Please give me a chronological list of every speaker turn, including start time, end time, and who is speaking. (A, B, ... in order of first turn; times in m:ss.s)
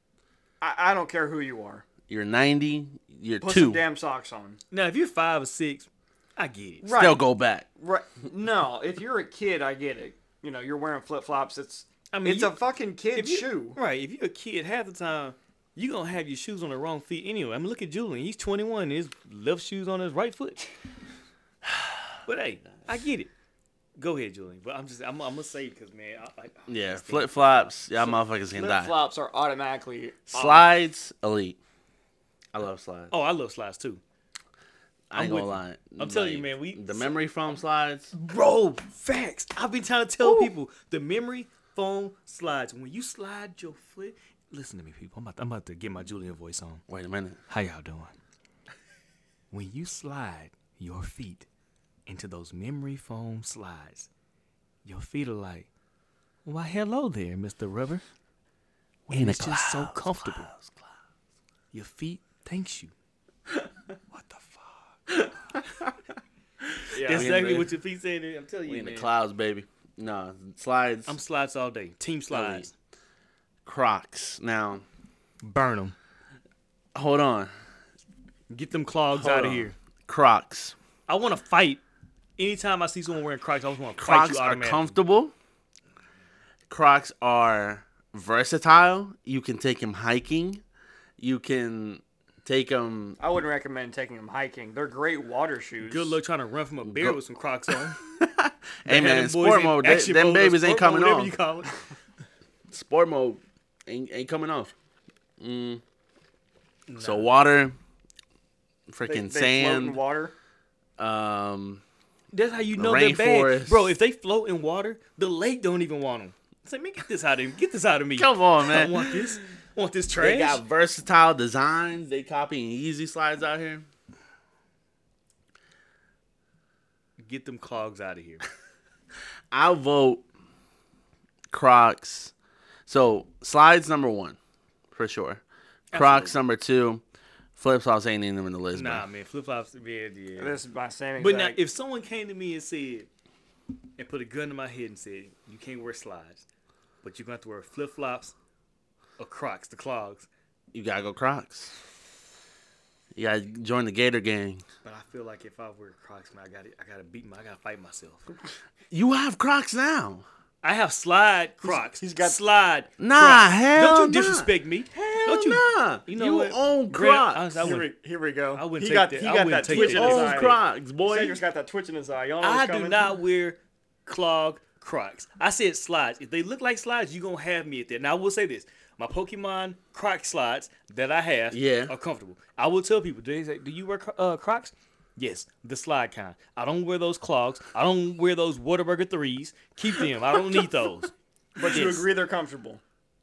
0:00.6-0:01.8 A
0:02.1-0:03.8 B
0:03.4-0:04.6 A
0:04.7-0:06.9 C
0:06.8-0:13.8 A
0:07.0-0:07.7 B
0:12.1-0:12.6 C
0:13.1-0:20.7 C
0:21.6-0:22.2 B
0:22.2-0:23.3 C
0:24.0-0:27.8 C
0:26.7-0:28.9 B
0:28.5-0:30.7 A
0:30.3-0:31.6 B
0:32.5-0:33.1 B
0:33.1-0:34.0 C
0:35.1-0:38.1 B
0:35.1-0:37.1 C
0:38.1-0:46.8 C
0:40.2-0:40.5 B
0:46.9-0:47.4 B
0:47.5-0:48.2 C
0:49.5-0:51.5 C
0:52.1-0:54.1 C
0:54.8-0:55.7 C
0:56.4-0:58.0 C
0:59.1-1:00.5 C
0:59.1-1:00.8 B
1:01.7-1:02.9 C
1:04.1-1:05.0 C
1:05.1-1:05.9 B
1:06.6-1:07.7 B
1:06.9-1:07.3 A
1:07.0-1:09.1 C
1:08.6-1:11.2 B
1:11.1-1:12.7 C
1:12.3-1:12.7 B
1:13.6-1:14.8 B
1:15.4-1:15.9 C
1:16.9-1:17.5 B
1:18.5-1:19.7 C
1:19.1-1:20.7 B
1:21.1-1:21.8 C
1:22.4-1:24.9 C
1:24.0-1:25.3 B
1:26.7-1:30.6 B
1:31.2-1:33.2 B
1:33.2-1:36.2 A
1:35.8-1:38.0 C
1:36.8-1:37.2 B
1:37.7-1:41.3 B
1:38.8-1:41.7 C
1:42.7-1:44.7 B
1:45.4-1:45.8 B
1:46.9-1:47.3 C
1:47.0-1:47.8 B
1:48.9-1:50.0 B
1:49.0-1:50.3 A
1:51.0-1:51.8 B
1:52.3-2:00.6 C
1:52.7-1:53.9 B
1:58.1-1:59.4 B
2:00.2-2:03.9 B
2:07.2-2:08.4 C
2:09.5-2:10.2 B
2:11.5-2:12.3 B
2:12.9-2:14.4 B
2:14.9-2:15.4 B
2:15.9-2:16.3 C
2:15.9-2:17.0 B
2:17.6-2:19.0 B
2:18.7-2:20.6 C
2:20.4-2:21.6 A
2:21.2-2:23.1 C
2:24.0-2:26.4 C
2:27.0-2:28.3 C
2:29.2-2:30.3 C
2:30.7-2:31.8 B
2:33.1-2:34.6 B
2:34.8-2:38.3 C
2:38.9-2:40.2 B
2:40.6-2:47.9 C
2:41.6-2:42.4 A
2:43.0-2:47.6 B
2:46.9-2:53.0 A
2:48.5-2:50.5 C
2:49.7-2:51.4 B
2:52.4-3:12.1 C
3:01.5-3:01.9 B
3:11.6-3:12.8 A